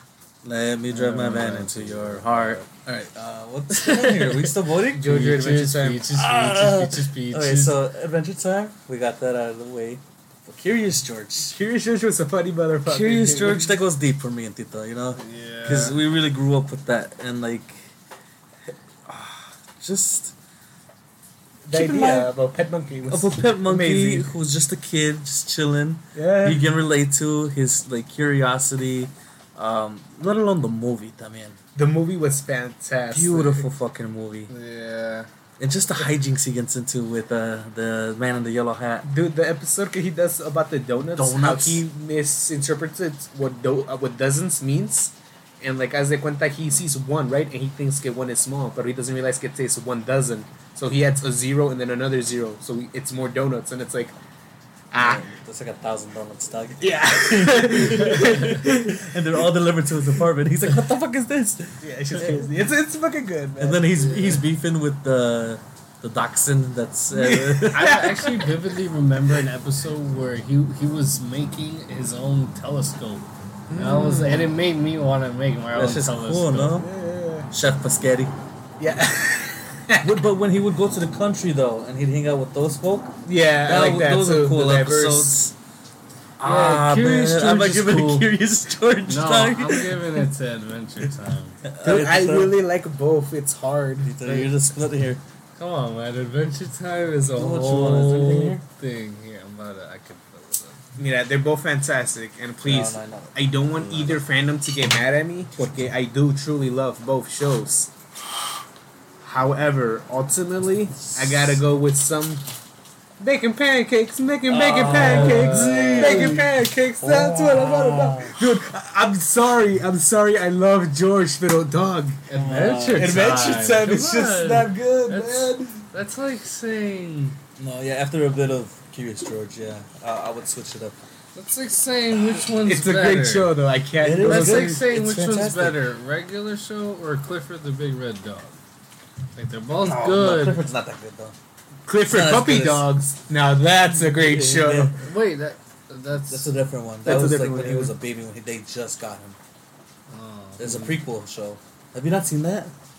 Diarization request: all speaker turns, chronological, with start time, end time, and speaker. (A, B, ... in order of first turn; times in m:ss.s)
0:00.4-0:05.1 A
0:00.9-0:02.7 B
0:03.8-0:04.4 B
0:04.8-0:06.1 C
0:05.0-0:07.8 B
0:06.1-0:11.5 A
0:11.4-0:13.7 C
0:12.8-0:17.9 A
0:15.2-0:16.0 B
0:19.0-0:20.3 A
0:21.6-0:24.3 C
0:21.7-0:22.3 A
0:23.1-0:31.6 A
0:26.1-0:26.6 C
0:31.8-0:33.7 C
0:33.1-0:34.5 A
0:34.5-0:35.3 B
0:35.6-0:39.0 A
0:39.0-0:54.1 C
0:41.2-0:41.8 A
0:54.9-0:55.2 C
0:54.9-1:02.5 A
0:56.8-0:59.4 C
1:01.8-1:04.4 C
1:03.6-1:08.1 A
1:07.1-1:08.5 C
1:07.7-1:16.8 B
1:13.7-1:14.5 C
1:15.7-1:16.9 A
1:16.8-1:17.5 C
1:17.5-1:18.3 A
1:18.8-1:20.1 C
1:20.0-1:23.1 A
1:23.2-1:25.4 C
1:23.6-1:25.5 A
1:26.4-1:30.2 A
1:26.4-1:28.3 B
1:29.1-1:31.6 B
1:31.6-1:32.6 A
1:31.8-1:34.5 C
1:34.0-1:35.2 A
1:35.6-1:40.8 B
1:37.4-1:38.6 A
1:41.0-1:47.9 C
1:42.6-1:43.3 A
1:43.7-1:44.2 B
1:49.2-1:52.4 C
1:51.1-1:51.6 A
1:53.2-2:05.8 C
1:54.5-1:56.5 A
1:54.9-1:56.4 B
1:57.0-1:58.4 A
2:02.3-2:07.4 B
2:02.3-2:03.7 A
2:07.6-2:11.0 A
2:11.3-2:13.5 B
2:12.6-2:14.8 C
2:14.0-2:15.8 A
2:14.2-2:18.6 B
2:19.3-2:20.6 B
2:19.8-2:21.3 A
2:21.9-2:25.0 C
2:22.1-2:22.9 A
2:23.9-2:25.0 A
2:25.0-2:26.5 B
2:26.3-2:29.4 A
2:27.0-2:27.9 C
2:30.1-2:30.9 B
2:30.6-2:32.7 A